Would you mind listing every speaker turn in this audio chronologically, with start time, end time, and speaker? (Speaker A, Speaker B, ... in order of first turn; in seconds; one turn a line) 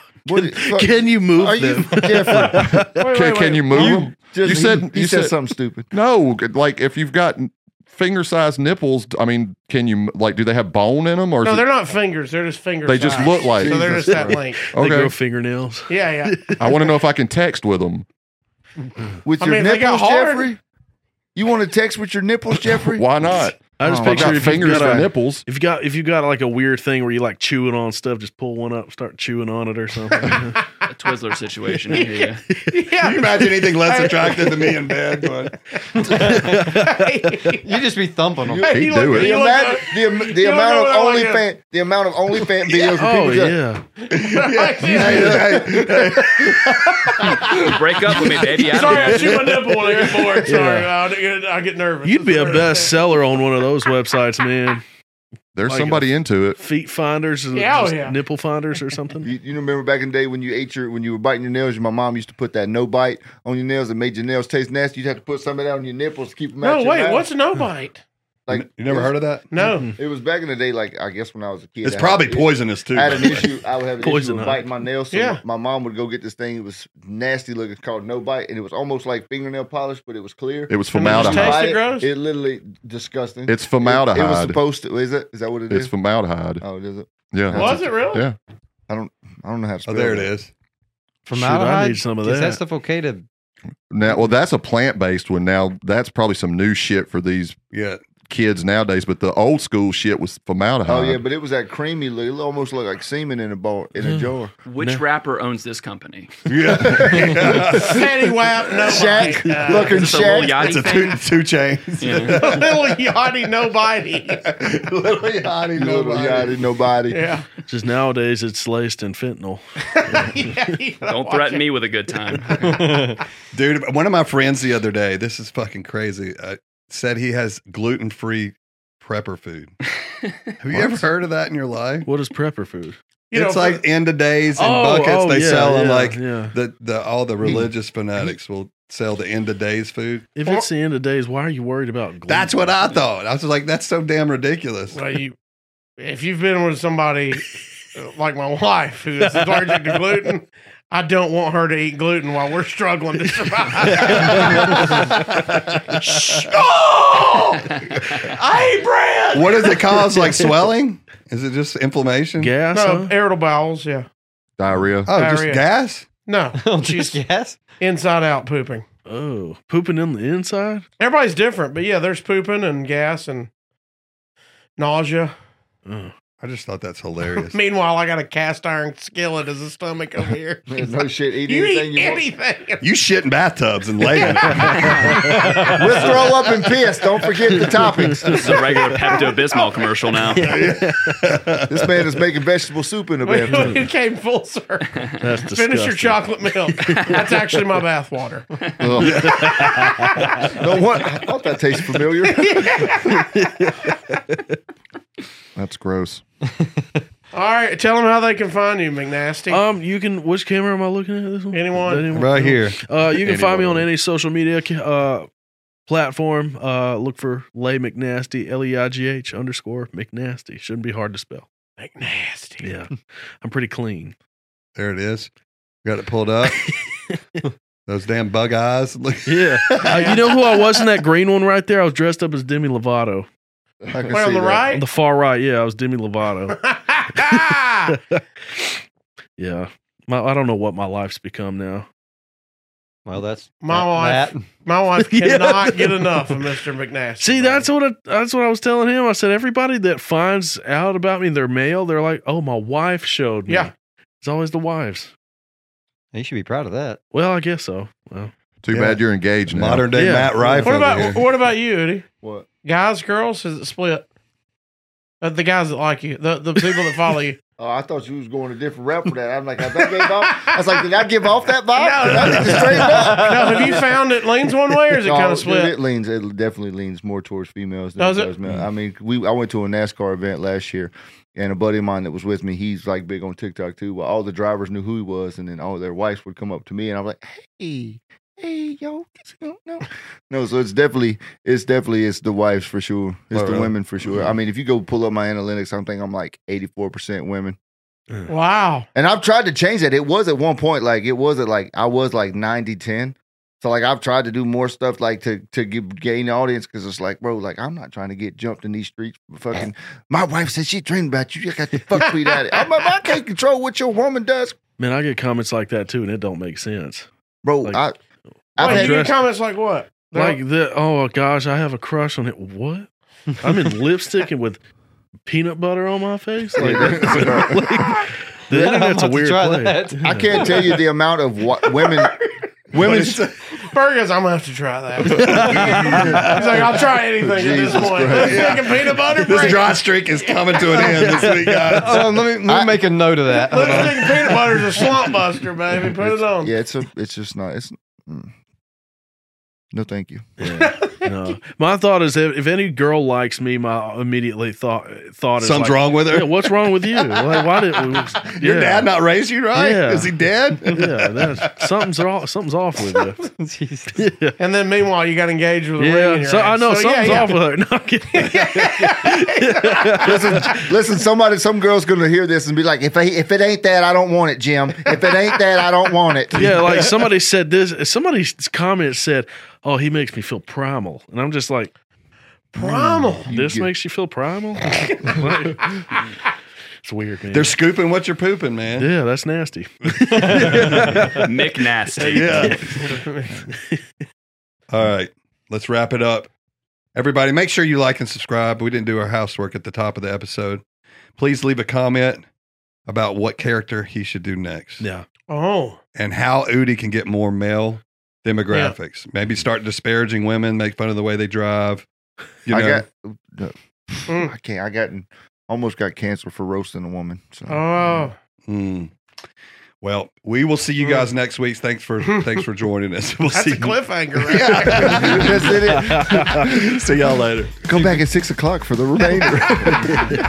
Speaker A: 0.3-2.7
Speaker B: 0.3-3.0
Speaker C: 2.6-5.3
Speaker D: 3.0-4.0
Speaker A: 3.7-5.9
Speaker C: 5.9-11.7
Speaker D: 11.4-14.7
Speaker C: 12.8-15.1
Speaker A: 13.6-14.4
Speaker B: 14.8-17.0
Speaker D: 15.9-16.6
Speaker C: 16.6-18.1
Speaker A: 19.2-20.6
Speaker D: 19.4-20.5
Speaker A: 21.4-23.0
Speaker C: 22.9-25.4
Speaker B: 23.8-30.6
Speaker A: 23.8-25.1
Speaker D: 30.1-30.4
Speaker E: 30.9-32.4
Speaker B: 31.8-32.6
Speaker D: 31.9-35.2
Speaker F: 33.0-35.6
Speaker D: 36.0-37.7
Speaker G: 36.1-36.6
Speaker B: 36.2-37.1
Speaker G: 37.6-38.9
Speaker A: 38.5-43.6
Speaker D: 38.5-41.4
Speaker C: 38.7-39.4
Speaker B: 42.7-43.9
Speaker D: 44.0-45.6
Speaker F: 44.1-47.6
Speaker A: 44.9-46.4
Speaker D: 47.1-47.6
Speaker E: 47.5-49.5
Speaker D: 48.6-53.0
Speaker B: 48.8-50.9
Speaker B: 52.0-54.8
Speaker C: 55.5-56.6
Speaker B: 55.7-59.3
Speaker D: 57.5-58.2
Speaker A: 59.2-67.3
Speaker D: 66.6-68.0
Speaker A: 68.5-69.2
Speaker F: 68.5-69.5
Speaker D: 69.5-69.9
Speaker B: 69.6-70.0
Speaker A: 70.0-85.9
Speaker F: 71.8-73.5
Speaker B: 74.0-74.6
Speaker D: 75.1-75.4
Speaker C: 80.7-81.7
Speaker D: 80.9-82.1
Speaker C: 83.5-84.6
Speaker C: 85.7-86.6
Speaker A: 86.6-88.2
Speaker C: 87.3-88.4
Speaker D: 87.5-88.2
Speaker A: 88.9-90.3
Speaker F: 89.9-90.5
Speaker G: 91.2-93.2
Speaker B: 91.3-92.6
Speaker C: 93.9-97.6
Speaker F: 97.7-98.0
Speaker C: 98.3-101.2
Speaker A: 100.8-104.5
Speaker B: 104.0-105.0
Speaker E: 104.7-106.3
Speaker F: 106.5-108.0
Speaker A: 106.7-108.0
Speaker D: 107.8-110.3
Speaker A: 108.8-110.7
Speaker E: 109.8-111.2
Speaker F: 110.6-112.9
Speaker E: 112.0-112.6
Speaker D: 112.4-114.4
Speaker F: 114.4-116.6
Speaker A: 115.8-117.3
Speaker D: 117.1-117.5
Speaker B: 117.7-120.7
Speaker D: 120.0-121.7
Speaker E: 121.1-122.8
Speaker B: 122.4-122.7
Speaker F: 123.5-129.8
Speaker F: 130.6-132.1
Speaker B: 132.1-133.0
Speaker D: 133.3-133.8
Speaker F: 133.3-140.3
Speaker B: 134.6-136.5
Speaker B: 140.4-143.0
Speaker F: 142.3-145.0
Speaker D: 144.9-145.3
Speaker D: 146.0-155.0
Speaker B: 149.3-150.0
Speaker B: 153.8-155.0
Speaker F: 154.0-156.2
Speaker D: 155.9-160.1
Speaker F: 159.3-162.5
Speaker B: 162.4-163.1
Speaker D: 162.7-164.1
Speaker C: 164.6-165.1
Speaker F: 165.1-166.1
Speaker D: 165.1-165.6
Speaker D: 166.3-167.2
Speaker G: 166.5-167.6
Speaker D: 167.8-168.8
Speaker B: 169.1-170.8
Speaker D: 171.0-173.5
Speaker D: 174.8-175.3
Speaker B: 175.9-176.1
Speaker F: 176.4-177.6
Speaker D: 177.5-180.7
Speaker A: 180.7-182.3
Speaker D: 181.5-182.8
Speaker F: 182.8-185.3
Speaker E: 184.8-185.2
Speaker B: 185.1-185.5
Speaker A: 185.5-188.5
Speaker B: 188.2-189.1
Speaker E: 188.4-190.6
Speaker D: 189.1-189.8
Speaker F: 190.4-191.7
Speaker B: 190.5-191.2
Speaker A: 191.7-193.8
Speaker D: 193.2-195.0
Speaker B: 193.5-193.8
Speaker B: 195.2-197.6
Speaker D: 195.5-198.5
Speaker C: 198.8-199.4
Speaker B: 199.0-200.6
Speaker F: 199.1-199.4
Speaker D: 199.3-200.3
Speaker A: 200.6-202.8
Speaker D: 202.4-203.3
Speaker B: 202.8-204.6
Speaker C: 205.6-206.2
Speaker D: 207.3-209.6
Speaker B: 209.5-215.3
Speaker D: 211.5-212.1
Speaker F: 212.1-212.8
Speaker C: 213.2-213.9
Speaker B: 215.9-221.5
Speaker D: 221.8-222.7
Speaker B: 222.6-224.2
Speaker F: 224.8-225.3
Speaker F: 225.8-226.7
Speaker F: 227.9-230.1
Speaker B: 229.3-233.3
Speaker D: 229.8-230.4
Speaker A: 233.9-234.8
Speaker D: 234.1-234.8
Speaker B: 234.7-236.6
Speaker D: 236.5-237.9
Speaker B: 237.2-238.8
Speaker B: 239.4-241.9
Speaker G: 243.1-244.5
Speaker D: 243.6-247.7
Speaker B: 245.0-246.5
Speaker B: 247.2-255.1
Speaker G: 256.1-257.0
Speaker B: 257.1-258.3
Speaker C: 258.6-260.0
Speaker F: 258.7-261.2
Speaker B: 259.9-260.6
Speaker D: 260.6-262.1
Speaker D: 262.6-264.1
Speaker D: 265.2-267.4
Speaker A: 267.6-273.8
Speaker D: 271.7-275.8
Speaker A: 275.0-297.6
Speaker D: 278.0-278.3
Speaker F: 293.3-293.7
Speaker D: 298.3-298.9
Speaker A: 298.9-314.6
Speaker B: 314.8-317.1
Speaker A: 317.4-318.0
Speaker B: 318.6-319.2
Speaker A: 318.6-319.1
Speaker D: 318.6-320.4
Speaker B: 320.1-322.9
Speaker B: 323.4-324.6
Speaker B: 325.3-330.7
Speaker A: 326.6-327.8
Speaker G: 328.5-330.7
Speaker A: 330.0-332.2
Speaker A: 332.7-333.2
Speaker F: 332.7-333.4
Speaker D: 333.6-341.2
Speaker B: 335.1-336.2
Speaker F: 335.2-336.8
Speaker A: 337.2-338.7
Speaker F: 338.1-342.4
Speaker B: 340.7-342.0
Speaker G: 341.8-344.1
Speaker A: 342.4-342.8
Speaker D: 343.4-346.5
Speaker F: 343.5-344.7
Speaker A: 346.1-348.3
Speaker A: 349.7-350.2
Speaker B: 350.4-358.9
Speaker D: 350.4-351.1
Speaker F: 355.4-361.7
Speaker B: 359.5-360.1
Speaker B: 360.7-363.2
Speaker G: 363.4-364.0
Speaker B: 364.0-364.4
Speaker D: 364.4-367.4
Speaker B: 365.8-370.7
Speaker D: 368.1-369.9
Speaker A: 370.0-376.7
Speaker B: 376.3-381.7
Speaker A: 382.5-383.7
Speaker D: 382.6-383.3
Speaker B: 383.3-385.8
Speaker B: 386.8-387.5
Speaker F: 387.3-388.9
Speaker B: 388.8-391.3
Speaker F: 389.9-391.1
Speaker G: 390.4-390.9
Speaker E: 391.2-392.7
Speaker B: 392.0-392.8
Speaker F: 392.1-393.0
Speaker D: 392.9-393.4
Speaker F: 394.7-396.3
Speaker F: 396.9-400.6
Speaker F: 401.2-402.2
Speaker F: 402.9-404.9
Speaker B: 404.8-405.1
Speaker D: 405.3-405.8
Speaker F: 405.9-411.9
Speaker F: 412.5-412.8
Speaker A: 412.5-417.9
Speaker D: 414.1-414.3
Speaker D: 417.5-418.1
Speaker F: 418.5-418.9
Speaker F: 419.8-427.9
Speaker D: 423.3-425.2
Speaker A: 424.7-426.6
Speaker B: 425.7-426.4
Speaker B: 427.6-427.9
Speaker A: 427.6-430.2
Speaker D: 429.4-429.8